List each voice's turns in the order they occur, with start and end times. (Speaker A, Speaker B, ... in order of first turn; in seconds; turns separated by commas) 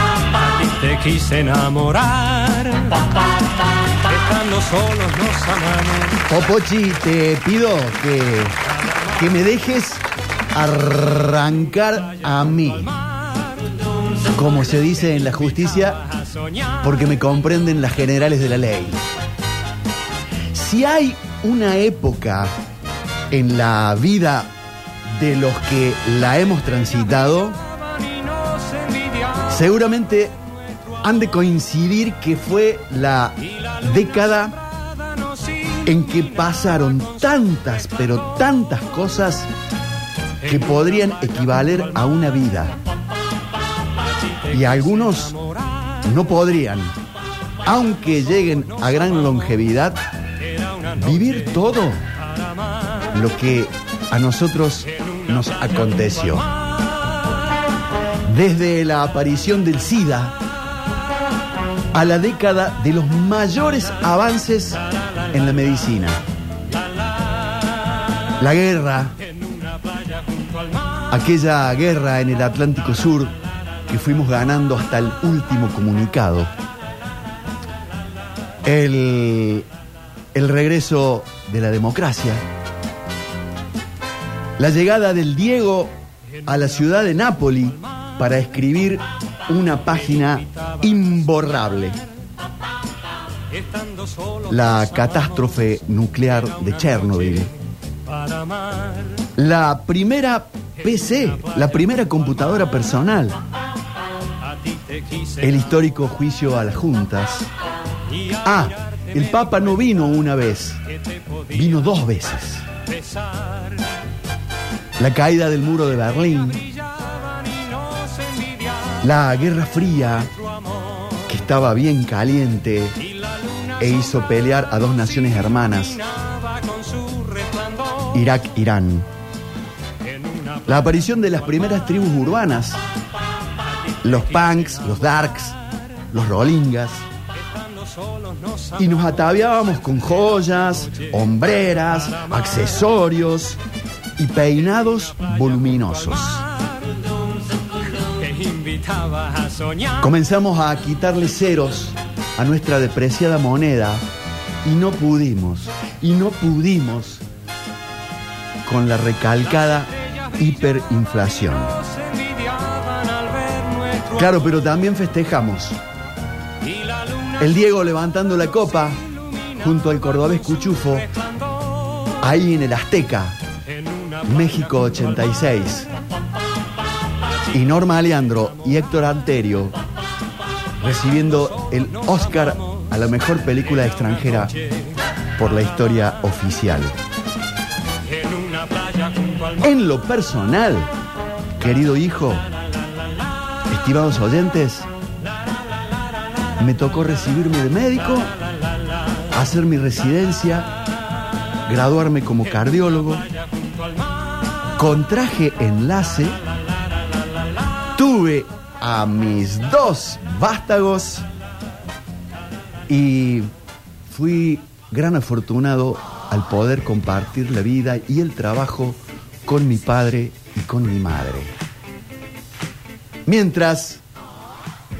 Speaker A: 0.2-3.3, Speaker A: 3.8-6.2, Speaker B: 6.1-13.0, Speaker A: 13.0-13.8, Speaker B: 14.2-16.1, Speaker A: 16.2-16.7, Speaker B: 16.8-19.0, Speaker B: 20.5-22.5, Speaker B: 23.3-24.5, Speaker B: 25.1-27.7, Speaker A: 27.8-29.4, Speaker B: 29.4-30.4, Speaker B: 31.0-34.6, Speaker A: 35.1-35.7, Speaker B: 35.8-39.5, Speaker B: 40.4-42.8, Speaker B: 44.5-47.0, Speaker A: 45.4-45.9, Speaker B: 47.6-50.0, Speaker A: 50.5-50.9, Speaker B: 50.9-52.0, Speaker A: 52.4-53.0, Speaker B: 53.0-56.5, Speaker B: 58.3-60.4, Speaker B: 61.9-66.2, Speaker B: 68.4-69.2, Speaker A: 69.3-70.9, Speaker B: 71.1-73.3, Speaker B: 73.9-76.5, Speaker B: 78.6-79.7, Speaker B: 80.3-82.4, Speaker B: 84.6-92.0, Speaker A: 93.6-94.5, Speaker B: 94.5-97.5, Speaker A: 98.2-99.2, Speaker B: 99.3-103.4, Speaker A: 104.6-105.3, Speaker B: 105.4-107.5, Speaker B: 108.3-110.8, Speaker B: 111.5-112.7, Speaker A: 113.0-113.8, Speaker B: 115.0-116.7, Speaker A: 116.7-119.0, Speaker B: 119.0-120.3, Speaker B: 121.2-123.0, Speaker B: 123.8-126.1, Speaker A: 126.2-128.1, Speaker B: 128.1-129.1, Speaker A: 130.2-130.6, Speaker B: 130.7-132.8, Speaker B: 134.0-137.0, Speaker A: 137.5-138.7, Speaker B: 138.7-143.6, Speaker B: 144.2-146.5, Speaker A: 148.0-149.9, Speaker B: 149.9-154.0, Speaker B: 154.6-157.2, Speaker B: 158.6-161.8, Speaker A: 162.0-164.1, Speaker B: 164.1-165.8, Speaker B: 167.4-171.2, Speaker A: 171.6-172.0, Speaker B: 172.1-173.4, Speaker B: 174.2-175.9, Speaker B: 177.5-179.8, Speaker B: 180.8-184.6, Speaker B: 185.3-187.0, Speaker A: 188.2-189.5, Speaker B: 189.6-190.9, Speaker B: 191.6-192.5, Speaker B: 193.7-194.9, Speaker B: 196.6-198.3, Speaker B: 199.3-200.7, Speaker B: 201.7-203.3, Speaker B: 204.8-206.4, Speaker B: 207.9-211.3, Speaker B: 212.9-213.5, Speaker B: 214.1-221.5, Speaker B: 223.2-224.0